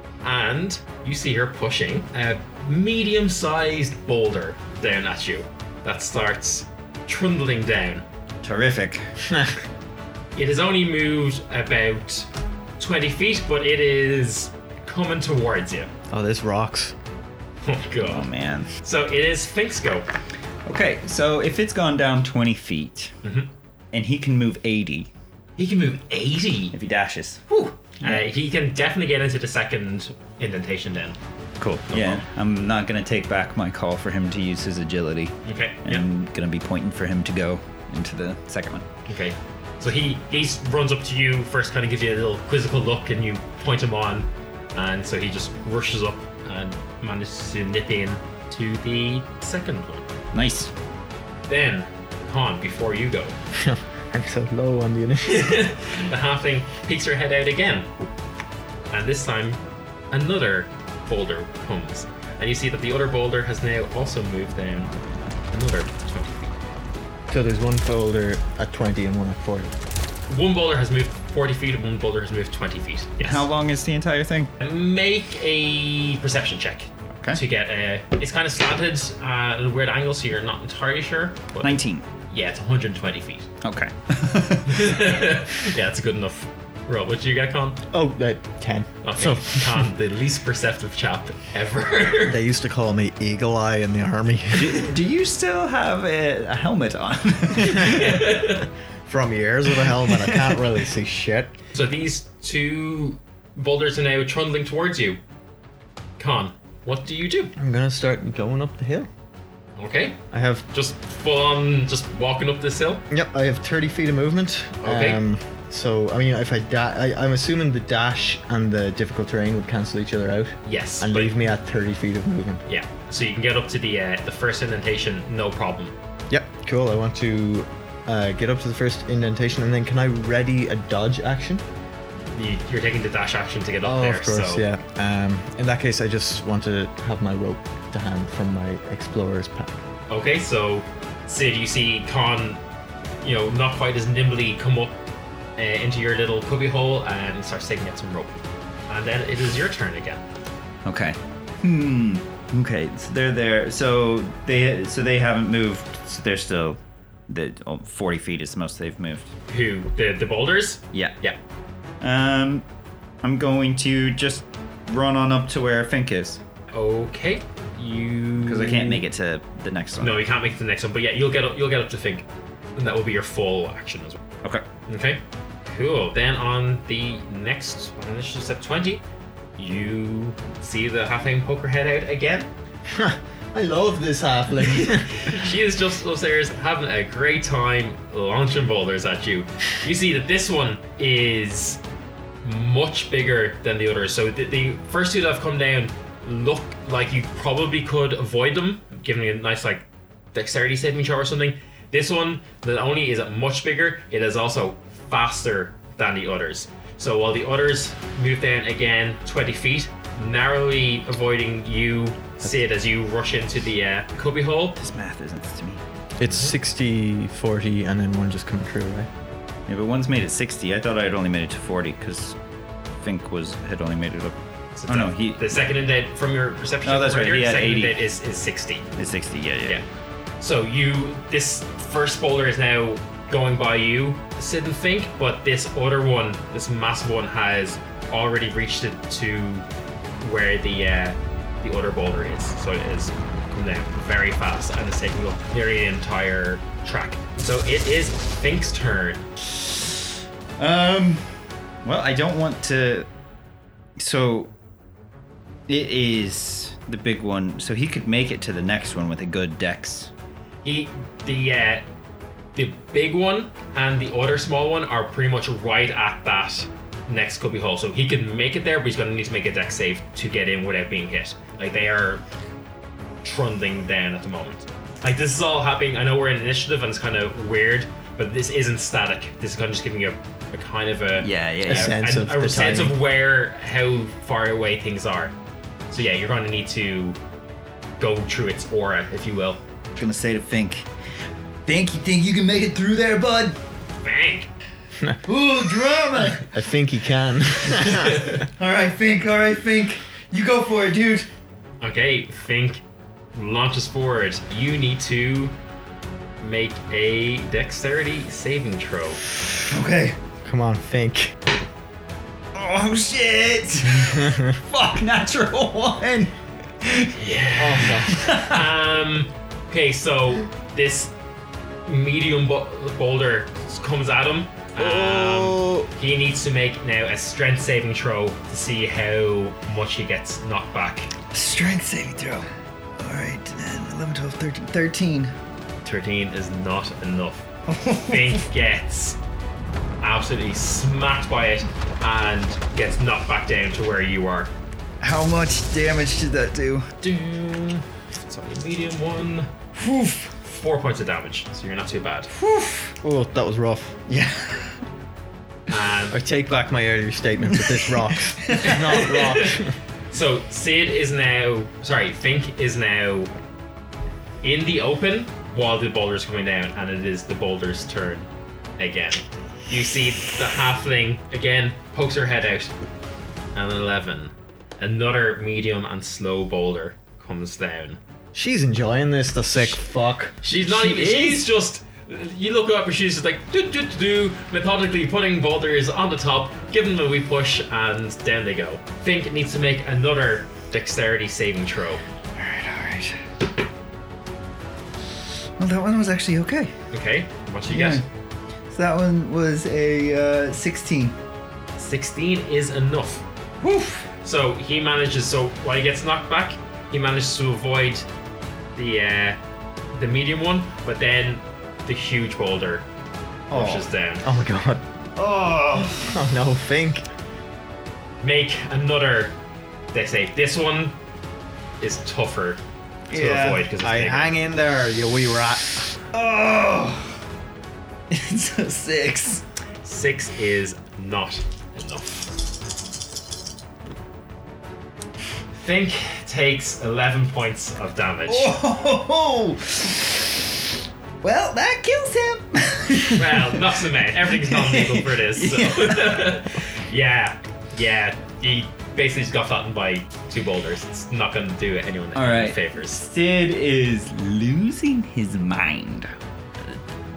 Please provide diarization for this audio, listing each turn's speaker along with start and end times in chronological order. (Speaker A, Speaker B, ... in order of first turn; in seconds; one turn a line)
Speaker A: 0.2-8.0
Speaker B: 8.4-9.1
Speaker C: 9.2-9.6
Speaker A: 10.3-12.3
Speaker A: 12.8-15.9
Speaker C: 16.1-16.9
Speaker A: 17.6-18.3
Speaker B: 18.0-18.7
Speaker A: 18.8-20.1
Speaker B: 20.6-23.1
Speaker A: 23.2-23.5
Speaker B: 23.9-25.1
Speaker A: 25.6-26.8
Speaker B: 26.7-27.4
Speaker A: 27.5-31.2
Speaker B: 31.6-38.8
Speaker A: 31.9-32.2
Speaker A: 35.4-36.1
Speaker A: 39.1-50.1
Speaker B: 50.3-50.7
Speaker A: 51.5-53.4
Speaker C: 53.5-55.5
Speaker A: 55.2-57.9
Speaker A: 58.9-64.9
Speaker A: 65.5-66.6
Speaker C: 67.3-69.7
Speaker A: 70.3-73.5
Speaker B: 73.2-74.5
Speaker A: 74.6-81.7
Speaker B: 81.6-82.0
Speaker A: 82.3-83.5
Speaker B: 83.6-85.0
Speaker A: 84.7-87.8
Speaker C: 87.9-89.8
Speaker A: 89.0-92.4
Speaker C: 92.3-94.8
Speaker B: 94.5-98.2
Speaker A: 97.7-98.7
Speaker C: 99.1-101.5
Speaker B: 99.9-100.6
Speaker A: 101.7-105.2
Speaker A: 106.2-107.5
Speaker C: 107.5-109.1
Speaker A: 109.8-110.2
Speaker C: 110.3-110.7
Speaker A: 110.7-113.0
Speaker C: 113.1-122.6
Speaker A: 114.8-115.2
Speaker A: 120.6-121.3
Speaker A: 122.7-125.9
Speaker C: 126.3-131.6
Speaker A: 132.3-134.6
Speaker C: 133.8-139.8
Speaker A: 140.1-142.6
Speaker A: 143.2-144.9
Speaker A: 145.6-150.2
Speaker B: 150.8-159.3
Speaker A: 159.5-161.4
Speaker B: 162.0-162.6
Speaker B: 163.2-166.4
Speaker A: 166.7-169.0
Speaker B: 168.4-170.2
Speaker A: 170.0-174.2
Speaker A: 174.9-179.0
Speaker A: 179.6-182.5
Speaker C: 182.9-185.3
Speaker A: 184.6-191.8
Speaker A: 192.4-214.8
Speaker B: 214.8-215.8
Speaker C: 216.2-219.1
Speaker A: 216.3-216.5
Speaker B: 219.7-222.3
Speaker B: 223.0-224.3
Speaker A: 224.7-228.9
Speaker B: 224.9-225.4
Speaker B: 226.8-227.9
Speaker B: 228.9-229.8
Speaker A: 230.4-239.7
Speaker A: 240.2-249.2
Speaker B: 249.6-249.9
Speaker B: 250.6-253.1
Speaker B: 254.0-254.5
Speaker B: 255.7-260.1
Speaker A: 260.6-261.9
Speaker A: 262.5-272.2
Speaker A: 273.2-285.3
Speaker B: 281.2-281.9
Speaker C: 281.6-282.9
Speaker A: 285.9-287.2
Speaker A: 288.0-289.6
Speaker B: 289.9-290.9
Speaker B: 291.6-293.6
Speaker A: 294.0-294.5
Speaker B: 295.2-296.5
Speaker C: 296.4-298.3
Speaker B: 297.9-301.3
Speaker A: 297.9-298.4
Speaker A: 301.8-302.8
Speaker A: 303.3-305.6
Speaker A: 306.4-309.2
Speaker B: 309.7-310.2
Speaker C: 310.4-311.4
Speaker B: 312.5-317.1
Speaker C: 314.0-314.6
Speaker A: 317.1-321.1
Speaker C: 317.6-318.2
Speaker B: 317.8-318.6
Speaker A: 321.9-331.1
Speaker B: 324.8-325.9
Speaker B: 331.3-332.5
Speaker B: 333.0-335.3
Speaker A: 335.8-337.5
Speaker B: 337.7-338.4
Speaker A: 338.0-339.2
Speaker A: 340.0-344.5
Speaker B: 345.0-346.9
Speaker A: 347.0-349.5
Speaker B: 349.8-350.3
Speaker A: 350.4-352.3
Speaker B: 352.4-352.9
Speaker C: 353.0-354.0
Speaker B: 354.1-354.8
Speaker A: 355.7-356.2
Speaker C: 356.1-359.7
Speaker B: 357.5-358.8
Speaker A: 358.6-363.3
Speaker A: 364.4-372.7
Speaker A: 373.5-378.0
Speaker C: 378.3-380.4
Speaker A: 380.4-392.0
Speaker B: 392.4-393.2
Speaker B: 395.6-396.7
Speaker A: 396.9-398.0
Speaker B: 397.7-398.0
Speaker B: 398.7-401.1
Speaker A: 401.8-403.2
Speaker B: 403.6-404.1
Speaker A: 404.2-408.1
Speaker A: 408.7-409.4
Speaker A: 409.9-412.9
Speaker B: 413.5-413.9
Speaker A: 413.5-414.2
Speaker C: 414.2-414.8
Speaker B: 415.1-416.1
Speaker C: 415.9-417.0
Speaker A: 418.2-419.4
Speaker A: 419.9-421.0
Speaker A: 421.8-424.3
Speaker B: 423.1-423.7
Speaker C: 423.8-425.9
Speaker B: 426.1-427.2
Speaker B: 428.1-429.4
Speaker A: 429.8-432.3
Speaker A: 435.6-438.5
Speaker B: 438.3-440.6
Speaker B: 441.2-443.7
Speaker A: 443.1-453.0
Speaker B: 444.2-446.4
Speaker B: 452.1-456.8